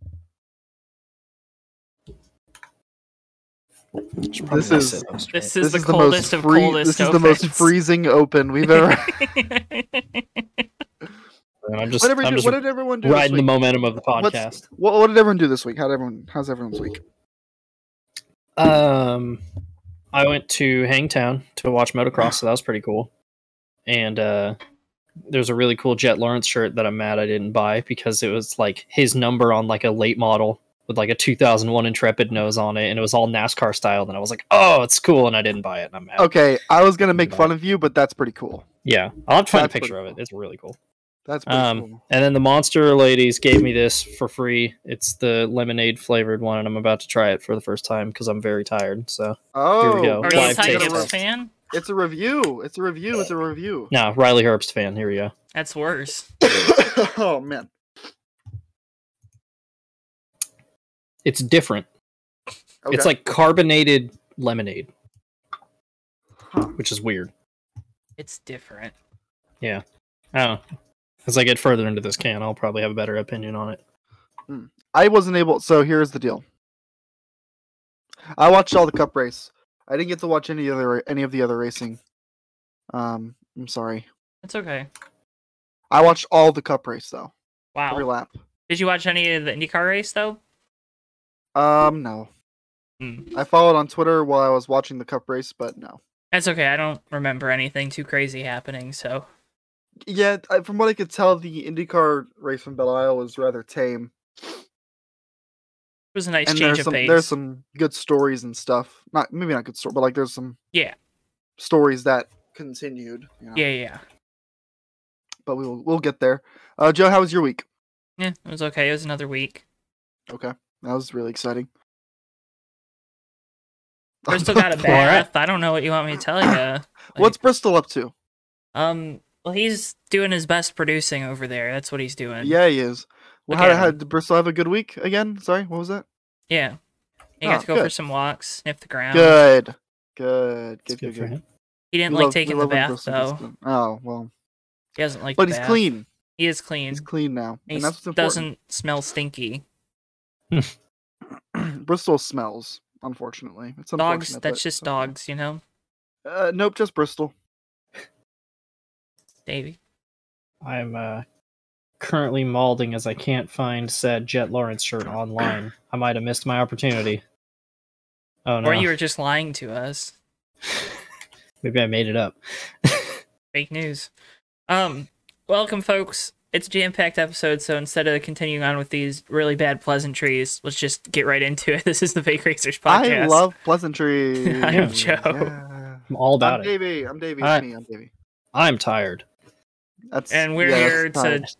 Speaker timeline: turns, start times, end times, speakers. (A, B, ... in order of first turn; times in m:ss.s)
0:04.3-0:05.5 A
0:04.5-0:05.1 B
0:05.3-0:07.7 C
0:05.6-0:09.3 B
0:08.7-0:10.4 C
0:11.6-0:14.6 A
0:12.0-0:13.5 B
0:14.2-0:17.0 B
0:18.6-0:19.4 A
0:20.1-0:23.1 A
0:23.9-0:24.6 A
0:25.3-0:36.3 A
0:36.2-0:38.7 B
0:37.0-0:37.5 A
0:38.8-0:40.8 A
0:39.5-0:40.2 B
0:41.3-0:42.0 B
0:41.5-0:51.2 A
0:49.6-0:51.1 B
0:50.2-0:51.5 C
0:51.7-0:53.9 B
0:53.9-0:55.3 A
0:55.5-0:56.3 C
0:56.4-0:57.7 B
1:01.2-1:01.9 A
1:02.8-1:03.1 B
1:02.9-1:04.9 A
1:06.8-1:07.3 A
1:08.2-1:08.9 C
1:10.3-1:10.6 A
1:11.2-1:13.8 A
1:14.5-1:16.4 B
1:18.4-1:22.0 B
1:22.9-1:24.1 B
1:24.4-1:24.9 C
1:25.9-1:27.3 B
1:27.8-1:28.1 C
1:27.9-1:28.4 B
1:28.7-1:30.4 C
1:31.6-1:32.3 B
1:33.0-1:33.3 C
1:33.3-1:36.0 B
1:36.3-1:39.3 C
1:40.1-1:44.6 B
1:46.1-1:47.3 C
1:46.4-1:50.6 B
1:51.6-1:53.6 B
1:53.6-1:54.0 C
1:55.5-1:57.6 B
1:58.2-1:59.6 C
2:00.3-2:01.7 B
2:04.3-2:05.1 B
2:04.3-2:07.4 C
2:04.8-2:05.3 A
2:07.2-2:08.1 B
2:08.8-2:12.6 C
2:12.4-2:16.0 B
2:13.5-2:14.0 C
2:16.5-2:16.8 C
2:17.4-2:19.4 C
2:17.4-2:17.9 B
2:19.1-2:21.4 B
2:21.0-2:21.4 A
2:21.9-2:23.4 C
2:22.1-2:24.3 B
2:25.0-2:25.8 C
2:25.4-2:26.1 B
2:26.4-2:27.1 C
2:26.9-2:28.5 B
2:27.7-2:29.6 C
2:31.5-2:35.1 B
2:34.0-2:35.6 C
2:36.2-2:37.3 B
2:39.5-2:39.8 C
2:40.6-2:41.2 A
2:42.0-2:47.2 A
2:48.4-2:48.9 A
2:48.6-2:50.1 C
2:51.6-2:53.2 A
2:53.5-2:54.1 C
2:54.7-3:03.4 C
3:02.9-3:08.1 B
3:04.4-3:05.5 C
3:04.7-3:05.0 A
3:06.1-3:06.7 A
3:07.4-3:07.6 A
3:08.5-3:09.2 A
3:10.1-3:11.4 B
3:10.3-3:11.5 C